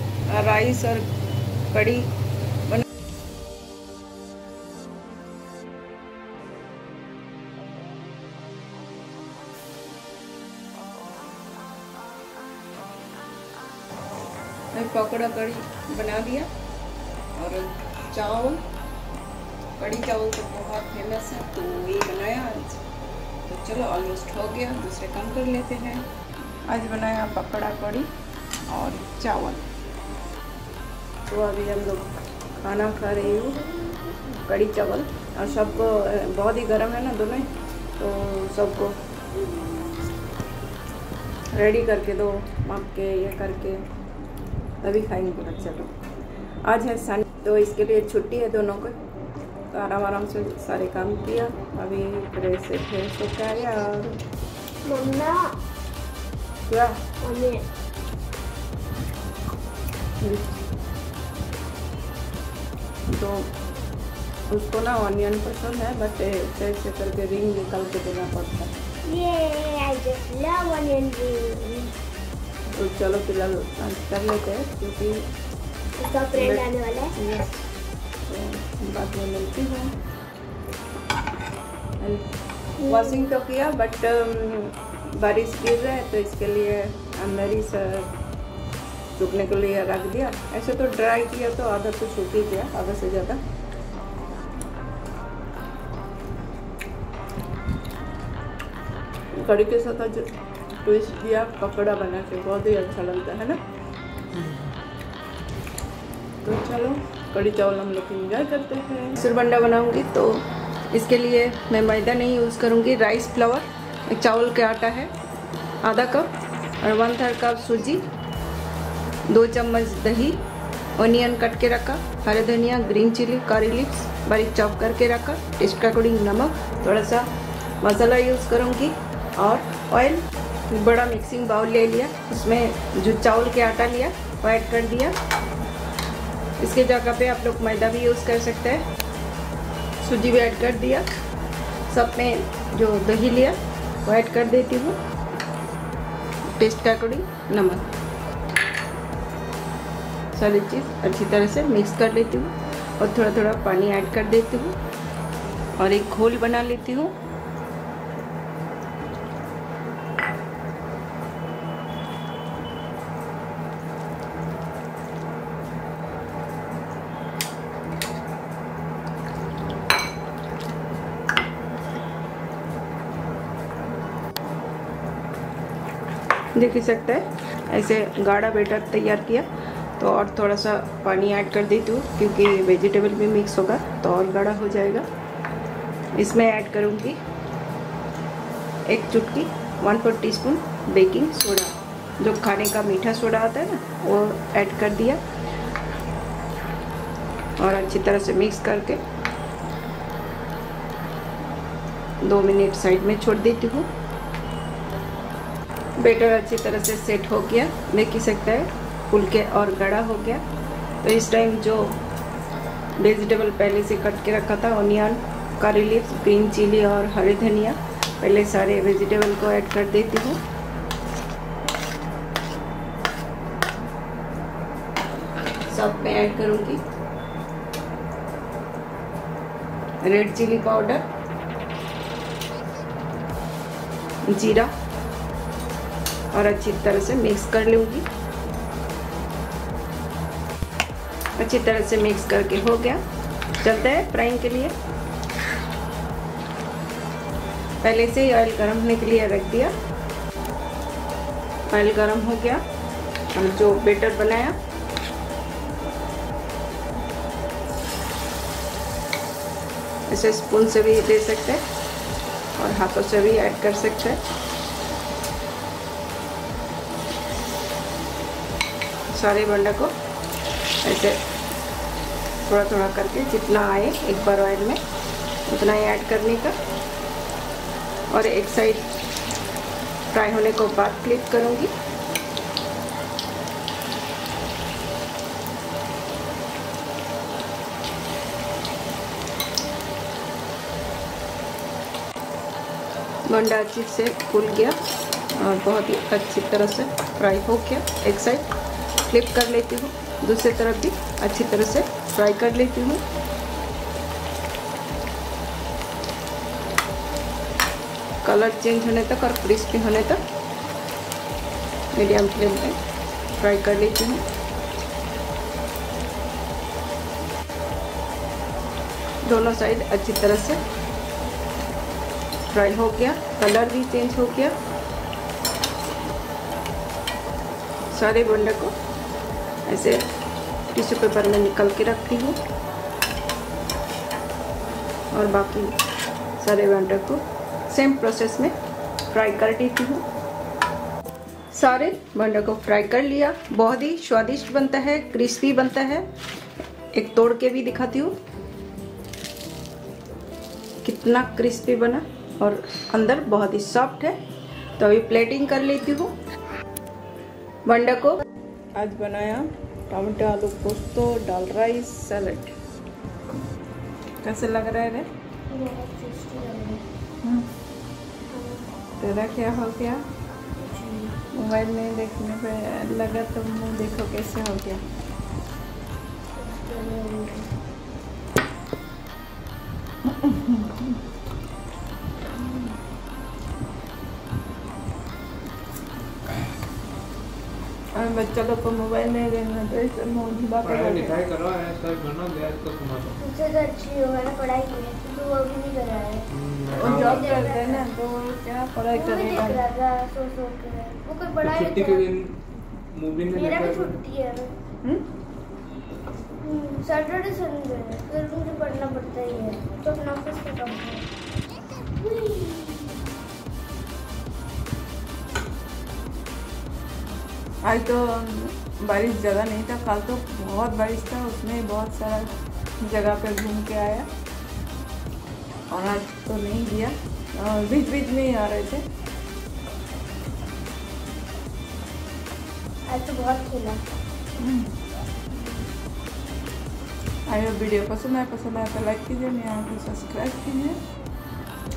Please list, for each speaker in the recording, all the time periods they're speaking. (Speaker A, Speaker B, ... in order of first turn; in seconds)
Speaker A: 0.3-1.1, 1.7-2.1, 14.7-16.5, 17.4-18.6, 19.8-22.8, 23.4-26.1, 26.7-28.1, 28.7-29.6, 31.3-33.7, 34.3-39.0, 41.5-43.8, 44.8-45.9, 46.6-49.0, 49.7-54.2, 56.7-57.0, 60.2-60.6, 63.1-63.5, 64.5-68.7, 72.7-75.3, 76.3-77.6, 78.3-79.9, 82.0-82.2, 82.9-88.1, 89.2-93.4, 99.3-100.3, 100.8-103.6, 106.4-115.1, 115.8-116.3, 116.8-118.0, 119.3-120.4, 121.0-127.3, 127.8-135.2, 136.6-138.8, 140.0-141.1, 141.9-145.0, 146.6-147.9, 150.3-154.8, 155.8-157.1, 176.6-185.1, 186.2-187.2, 188.9-195.2, 197.6-199.0, 202.2-203.9, 206.0-210.4, 211.0-212.0, 213.0-220.4, 225.7-226.8, 230.0-231.0, 234.3-234.7, 236.3-238.1, 241.4-243.0, 243.6-244.7, 247.8-249.7, 251.7-252.6, 253.3-254.6, 260.1-261.6, 262.6-264.2, 269.1-269.9, 270.8-271.2, 272.4-274.8, 275.5-276.6, 278.1-278.9, 280.1-281.7, 293.3-294.8, 295.4-298.5, 299.1-303.0, 308.2-310.2, 311.9-312.8, 313.4-314.2, 319.2-320.6, 322.5-324.5, 327.9-328.7, 329.7-330.1, 330.7-332.4, 335.1-335.8, 336.4-338.5, 339.1-340.1, 341.5-346.1, 346.9-348.1, 350.8-354.2, 354.8-356.1, 357.7-358.2, 358.8-362.5, 364.2-365.1, 369.0-370.0, 371.3-374.8, 380.2-380.7, 388.0-391.1, 396.8-399.6, 417.6-422.3, 422.8-424.1, 425.7-428.8, 437.3-440.8
Speaker B: 54.9-55.5, 57.2-57.6, 69.1-71.9, 76.0-77.2, 82.8-83.3, 365.5-366.8, 368.3-368.7, 370.6-371.1, 376.4-377.5, 393.2-397.9, 398.9-402.1, 403.3-404.5, 406.4-411.1, 412.0-413.0, 432.9-433.8
Speaker C: 390.6-393.2, 396.3-397.3, 401.4-402.4, 402.9-404.0